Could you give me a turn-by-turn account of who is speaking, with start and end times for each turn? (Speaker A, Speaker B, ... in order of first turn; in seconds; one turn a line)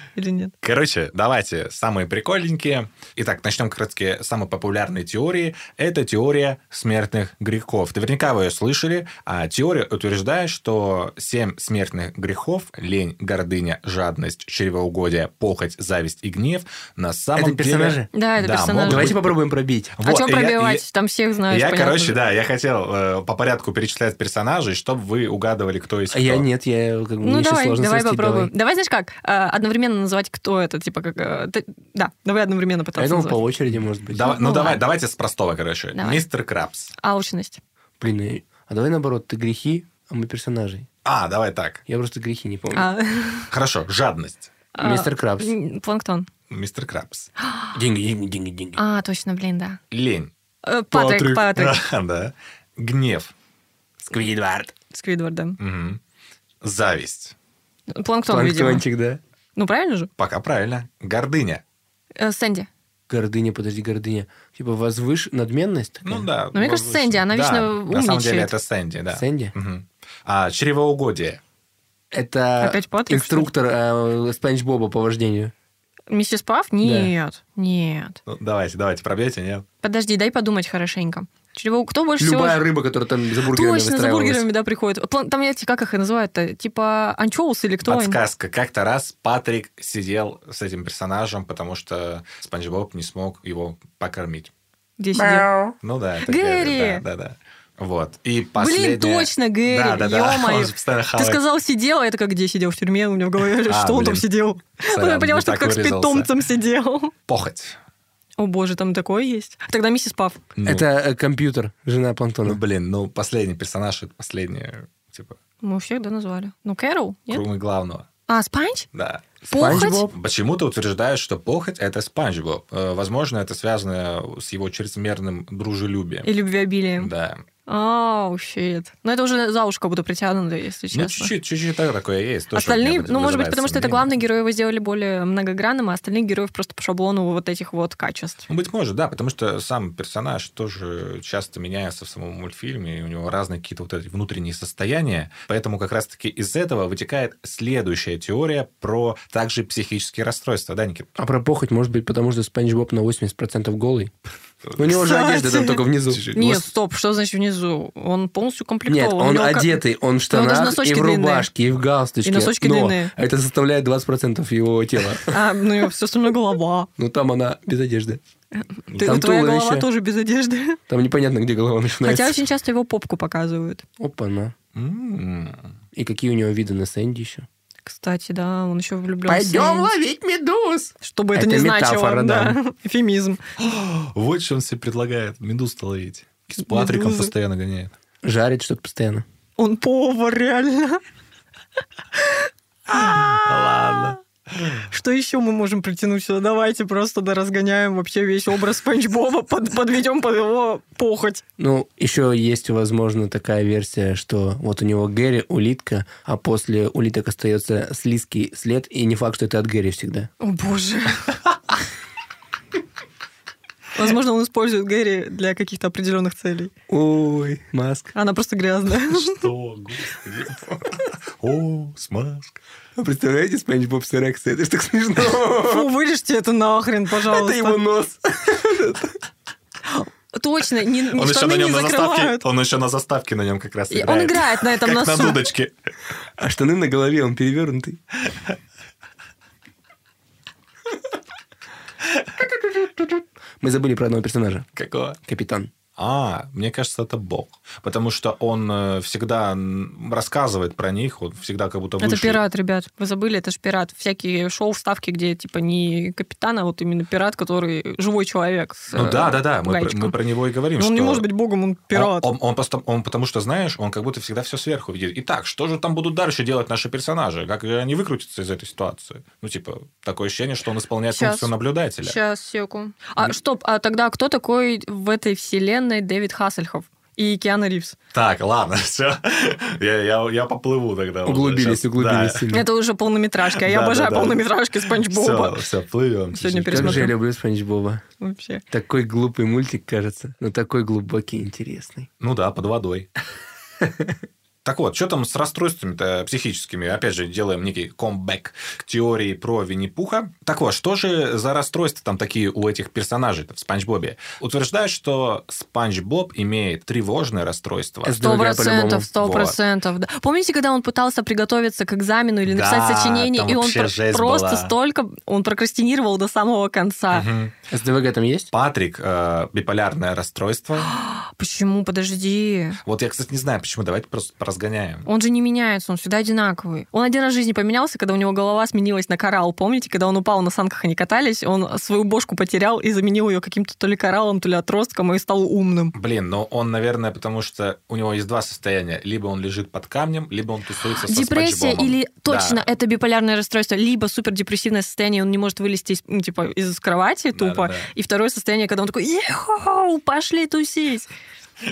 Speaker A: 0.1-0.5
Speaker B: 0.6-19.4
Speaker C: 17.4-18.1
Speaker A: 18.1-19.2
Speaker C: 18.9-19.9
Speaker B: 19.9-20.8
Speaker A: 20.0-22.2
Speaker B: 21.5-26.4
Speaker C: 26.1-28.5
Speaker A: 27.2-33.4
Speaker C: 33.0-34.3
Speaker B: 34.1-36.9
Speaker A: 34.2-34.8
Speaker A: 35.9-36.2
Speaker A: 37.0-37.6
Speaker C: 38.0-40.9
Speaker B: 41.0-41.8
Speaker C: 41.9-42.9
Speaker A: 42.7-43.5
Speaker B: 43.5-44.5
Speaker A: 44.7-46.3
Speaker C: 44.8-45.5
Speaker B: 46.5-47.3
Speaker C: 47.7-48.8
Speaker A: 48.8-49.8
Speaker B: 49.9-50.3
Speaker A: 50.6-51.8
Speaker C: 50.9-51.3
Speaker B: 51.0-53.3
Speaker C: 54.0-54.7
Speaker A: 54.9-55.6
Speaker B: 55.6-56.0
Speaker B: 56.6-57.3
Speaker A: 57.9-58.8
Speaker C: 58.3-59.2
Speaker A: 59.5-60.1
Speaker B: 60.2-61.6
Speaker A: 62.1-62.7
Speaker C: 63.1-66.3
Speaker B: 66.0-71.4
Speaker A: 66.5-68.5
Speaker C: 69.1-69.5
Speaker C: 72.1-75.5
Speaker A: 72.6-73.5
Speaker A: 76.1-78.2
Speaker C: 76.8-77.1
Speaker B: 78.3-79.6
Speaker A: 79.8-82.6
Speaker C: 82.2-84.5
Speaker A: 83.5-88.2
Speaker B: 87.8-94.5
Speaker A: 95.0-95.5
Speaker C: 95.1-95.7
Speaker B: 95.8-101.4
Speaker A: 96.2-97.0
Speaker A: 98.6-107.1
Speaker B: 103.7-104.2
Speaker B: 104.9-106.3
Speaker B: 107.3-107.8
Speaker A: 108.4-110.4
Speaker B: 110.5-110.8
Speaker C: 110.6-112.6
Speaker B: 112.5-115.4
Speaker A: 115.6-117.4
Speaker B: 117.3-118.0
Speaker A: 118.3-118.9
Speaker B: 118.9-126.3
Speaker A: 119.5-120.1
Speaker C: 119.5-120.1
Speaker A: 126.2-127.1
Speaker B: 127.0-127.4
Speaker A: 127.7-131.3
Speaker B: 130.9-134.1
Speaker A: 132.5-138.5
Speaker B: 138.5-151.1
Speaker C: 151.2-154.1
Speaker B: 154.7-154.9
Speaker C: 154.8-156.4
Speaker A: 154.9-161.5
Speaker B: 156.1-156.6
Speaker C: 158.9-165.4
Speaker A: 162.2-163.1
Speaker A: 165.3-166.9
Speaker C: 167.0-168.2
Speaker A: 168.6-170.8
Speaker B: 168.9-169.2
Speaker C: 169.0-169.9
Speaker C: 170.9-172.4
Speaker A: 172.0-173.8
Speaker C: 174.0-174.5
Speaker B: 174.7-175.7
Speaker C: 175.9-177.5
Speaker A: 177.8-179.9
Speaker C: 179.3-182.6
Speaker A: 181.0-183.4
Speaker B: 183.6-187.9
Speaker A: 186.6-187.3
Speaker C: 188.2-189.2
Speaker A: 189.6-191.0
Speaker A: 192.2-193.4
Speaker B: 192.9-194.8
Speaker A: 194.9-201.4
Speaker C: 201.6-210.3
Speaker A: 210.4-211.3
Speaker A: 213.9-216.7
Speaker C: 216.9-218.1
Speaker A: 218.1-219.5
Speaker B: 219.1-222.6
Speaker C: 222.9-225.9
Speaker A: 225.6-227.8
Speaker C: 227.2-229.2
Speaker A: 229.8-232.4
Speaker B: 231.1-235.7
Speaker A: 233.9-235.4
Speaker C: 236.4-238.0
Speaker C: 242.4-244.7
Speaker B: 244.8-245.2
Speaker C: 245.2-245.7
Speaker B: 246.0-252.4
Speaker A: 252.0-260.1
Speaker B: 258.9-261.2
Speaker A: 260.8-262.3
Speaker B: 261.9-272.2
Speaker A: 271.1-271.5
Speaker A: 272.0-277.9
Speaker B: 278.1-282.5
Speaker C: 281.2-282.6
Speaker A: 282.5-285.6
Speaker B: 283.5-287.1
Speaker A: 286.3-287.1
Speaker C: 286.7-288.0
Speaker A: 288.2-288.6
Speaker C: 288.7-292.1
Speaker B: 292.2-293.1
Speaker C: 293.8-294.1
Speaker B: 294.6-308.2
Speaker C: 308.0-309.1
Speaker A: 308.2-317.3
Speaker B: 309.2-309.6
Speaker B: 312.5-314.7
Speaker B: 317.1-317.5
Speaker C: 317.7-318.5
Speaker B: 318.5-320.9
Speaker A: 320.8-322.8
Speaker B: 322.8-325.1
Speaker A: 325.1-335.9
Speaker B: 335.9-342.6
Speaker A: 341.1-351.1
Speaker B: 347.3-347.9